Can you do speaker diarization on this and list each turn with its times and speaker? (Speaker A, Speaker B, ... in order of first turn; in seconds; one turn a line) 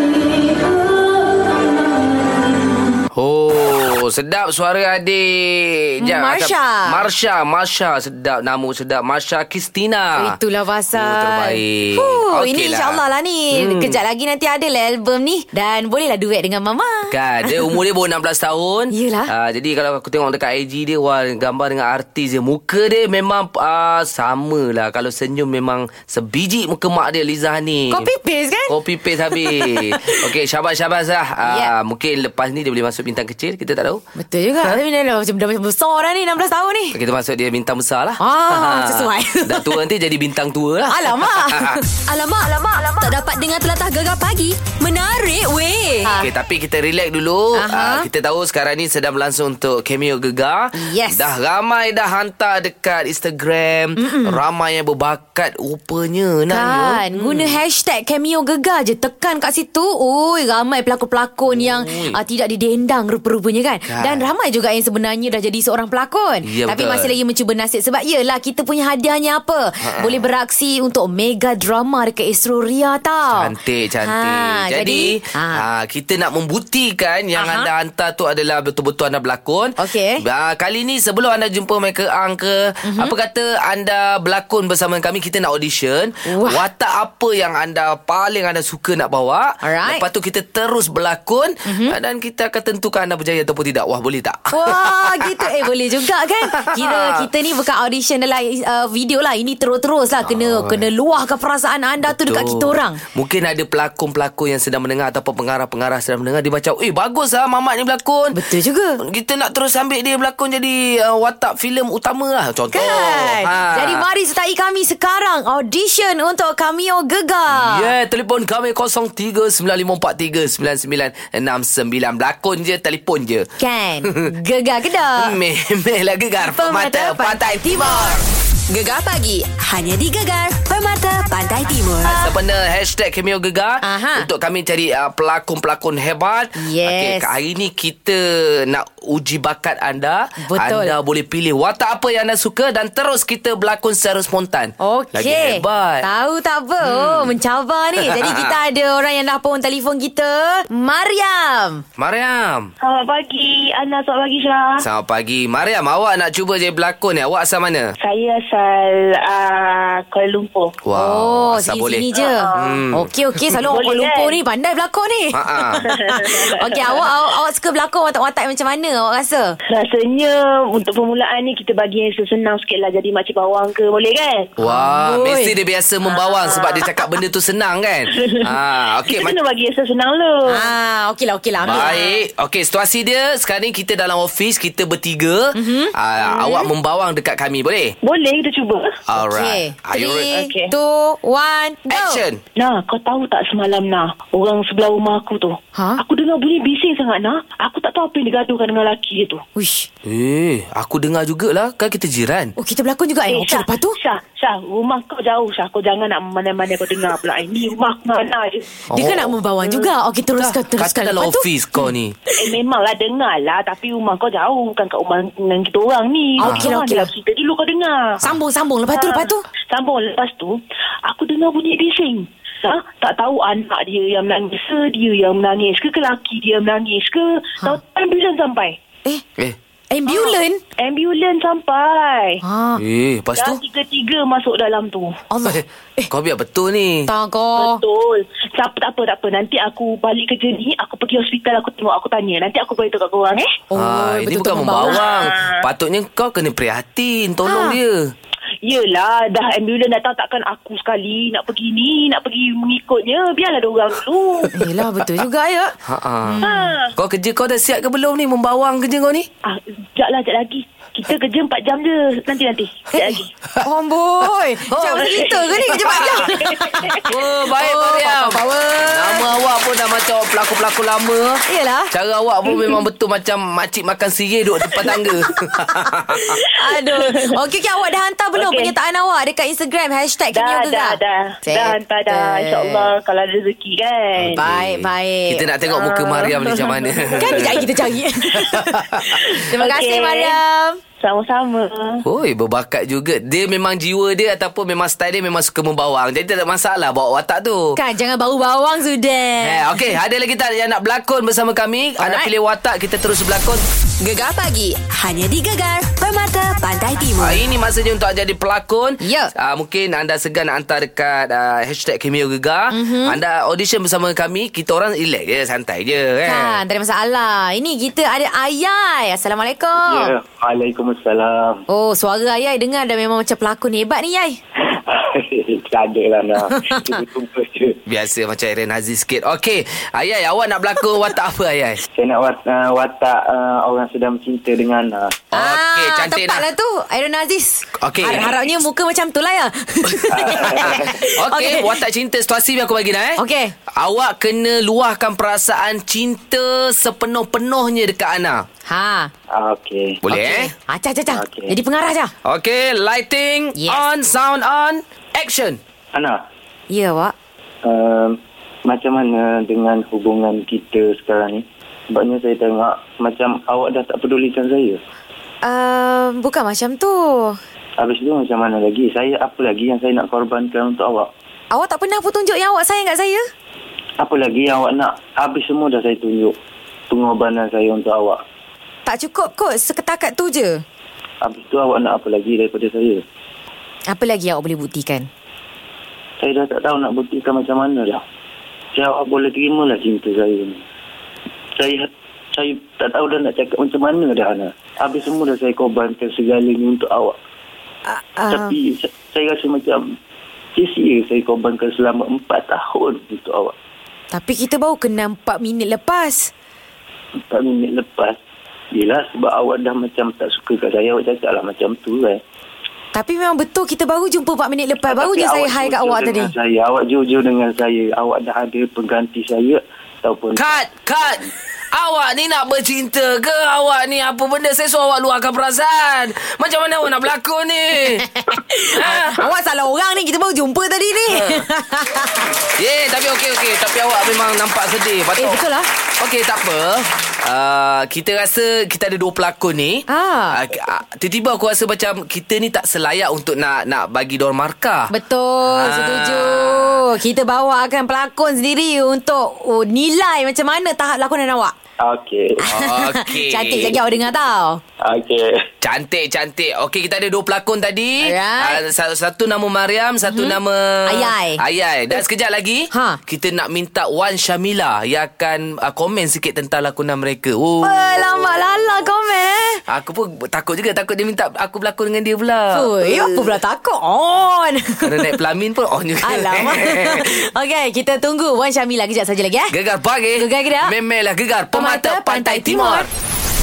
Speaker A: 3.1-10.3
Speaker B: 6.0-7.0
Speaker B: 10.2-17.8
Speaker A: 10.9-13.0
Speaker A: 13.5-14.0
Speaker A: 17.1-28.1
Speaker B: 18.9-19.3
Speaker B: 27.9-30.3
Speaker A: 28.7-34.0
Speaker B: 31.4-31.7
Speaker B: 34.1-37.0
Speaker A: 36.9-41.8
Speaker B: 38.2-39.8
Speaker B: 40.9-41.8
Speaker C: 42.0-46.1
Speaker B: 46.0-46.3
Speaker A: 46.2-57.6
Speaker B: 47.5-48.1
Speaker B: 50.7-51.3
Speaker B: 54.0-54.4
Speaker B: 56.5-73.5
Speaker A: 61.5-62.2
Speaker A: 63.9-64.3
Speaker A: 66.4-67.1
Speaker A: 69.8-70.2
Speaker A: 73.3-95.7
Speaker B: 74.0-75.6
Speaker B: 77.3-77.7
Speaker B: 79.8-80.2
Speaker B: 82.8-83.1
Speaker B: 86.2-86.6
Speaker B: 89.6-90.0
Speaker B: 91.7-92.0
Speaker B: 94.5-103.0
Speaker A: 96.4-97.3
Speaker A: 100.2-100.8
Speaker A: 102.0-108.4
Speaker B: 108.3-109.0
Speaker A: 109.0-114.0
Speaker B: 112.7-117.9
Speaker A: 117.5-123.5
Speaker B: 123.6-125.3
Speaker A: 124.0-124.3
Speaker A: 125.2-128.2
Speaker B: 126.5-128.2
Speaker C: 128.7-132.3
Speaker A: 132.0-146.1
Speaker B: 133.8-134.3
Speaker B: 136.6-137.3
Speaker B: 140.4-140.9
Speaker B: 144.8-151.8
Speaker A: 146.8-147.3
Speaker A: 147.9-148.6
Speaker A: 152.0-152.7
Speaker D: 152.8-154.8
Speaker A: 154.8-157.9
Speaker D: 158.0-160.8
Speaker A: 160.8-163.6
Speaker B: 160.9-169.6
Speaker D: 162.1-162.8
Speaker D: 163.7-164.3
Speaker A: 165.3-165.8
Speaker D: 165.8-167.1
Speaker D: 169.7-174.5
Speaker A: 174.6-179.3
Speaker B: 174.6-175.5
Speaker D: 176.0-177.2
Speaker D: 178.1-180.7
Speaker B: 180.5-182.1
Speaker A: 181.6-187.9
Speaker D: 181.7-182.2
Speaker B: 185.5-186.7
Speaker D: 188.0-189.0
Speaker A: 189.1-190.3
Speaker B: 189.2-192.2
Speaker D: 190.2-190.7
Speaker A: 191.9-192.4
Speaker D: 192.6-199.4
Speaker B: 195.7-196.0
Speaker B: 199.6-199.9
Speaker A: 200.0-202.5
Speaker B: 202.6-203.9
Speaker D: 203.3-208.8
Speaker A: 208.9-209.3
Speaker B: 208.9-211.5
Speaker D: 209.6-209.9
Speaker A: 210.3-212.2
Speaker D: 212.4-218.2
Speaker B: 216.4-217.1
Speaker B: 218.2-219.4
Speaker D: 218.9-228.8
Speaker B: 229.9-230.6
Speaker D: 230.1-232.4
Speaker B: 232.4-232.8
Speaker A: 232.8-233.6
Speaker D: 233.3-235.2
Speaker B: 235.3-236.1
Speaker A: 235.4-237.1
Speaker B: 237.1-237.8
Speaker D: 237.6-243.5
Speaker B: 243.7-245.1
Speaker A: 243.7-248.1
Speaker D: 244.8-245.7
Speaker B: 247.4-247.8
Speaker D: 248.6-254.6
Speaker B: 254.5-256.7
Speaker A: 255.8-256.4
Speaker D: 256.4-256.9
Speaker A: 256.9-259.3
Speaker D: 259.4-263.3
Speaker B: 263.0-267.0
Speaker A: 264.7-265.1
Speaker D: 264.8-267.1
Speaker A: 265.9-266.3
Speaker A: 267.1-276.3
Speaker B: 267.6-269.3
Speaker B: 271.5-271.9
Speaker D: 272.5-272.8
Speaker D: 274.7-275.2
Speaker D: 276.4-277.4
Speaker B: 276.4-282.9
Speaker D: 278.3-278.7
Speaker D: 280.3-284.4
Speaker A: 284.2-287.7
Speaker B: 284.3-285.4
Speaker D: 285.7-287.6
Speaker B: 287.2-290.8
Speaker A: 288.3-289.3
Speaker D: 289.1-290.4
Speaker D: 291.0-292.0
Speaker A: 292.0-297.8
Speaker B: 297.8-299.7
Speaker A: 299.4-303.6
Speaker B: 302.0-302.3
Speaker C: 304.0-307.4
Speaker A: 307.2-316.6
Speaker B: 309.0-309.3
Speaker B: 312.7-313.2
Speaker B: 316.2-320.1
Speaker E: 319.8-321.6
Speaker B: 321.7-324.4
Speaker E: 324.7-327.8
Speaker B: 326.5-327.0
Speaker A: 327.9-331.8
Speaker E: 331.9-335.2
Speaker A: 335.3-336.5
Speaker B: 335.3-341.8
Speaker A: 337.8-338.3
Speaker A: 339.8-348.4
Speaker E: 340.1-341.0
Speaker B: 343.2-343.5
Speaker B: 348.7-349.1
Speaker E: 349.3-350.0
Speaker A: 350.0-350.5
Speaker B: 350.1-352.1
Speaker E: 351.1-351.5
Speaker A: 352.2-355.6
Speaker B: 353.6-353.8
Speaker E: 355.9-356.2
Speaker B: 356.7-357.1
Speaker E: 357.6-364.8
Speaker B: 365.4-367.4
Speaker E: 367.8-371.1
Speaker B: 371.5-373.3
Speaker E: 374.0-376.3
Speaker E: 376.9-378.2
Speaker B: 378.9-380.6
Speaker E: 381.2-383.0
Speaker B: 383.9-385.1
Speaker E: 386.2-388.0
Speaker E: 388.7-390.6
Speaker E: 391.6-397.1
Speaker B: 397.9-398.6
Speaker E: 398.3-399.9
Speaker E: 400.5-403.5
Speaker B: 404.1-406.3
Speaker E: 407.2-408.2
Speaker E: 408.7-412.2
Speaker B: 412.9-416.3
Speaker E: 414.9-420.5
Speaker A: 420.3-429.3
Speaker B: 428.0-432.3
Speaker A: 431.1-431.4
Speaker A: 432.5-435.4
Speaker B: 435.2-435.7
Speaker A: 436.0-444.9
Speaker B: 439.9-440.4
Speaker B: 444.9-451.5
Speaker A: 445.4-446.8
Speaker E: 451.8-452.4
Speaker B: 452.4-454.6
Speaker A: 452.5-453.8
Speaker E: 454.8-455.3
Speaker A: 455.6-467.9
Speaker B: 458.0-458.6
Speaker B: 460.1-461.4
Speaker B: 462.7-463.0
Speaker B: 467.6-469.6
Speaker A: 469.7-473.4
Speaker B: 472.5-475.1
Speaker A: 474.8-477.1
Speaker B: 476.0-479.5
Speaker A: 479.5-482.9
Speaker B: 480.1-480.7
Speaker B: 481.5-482.9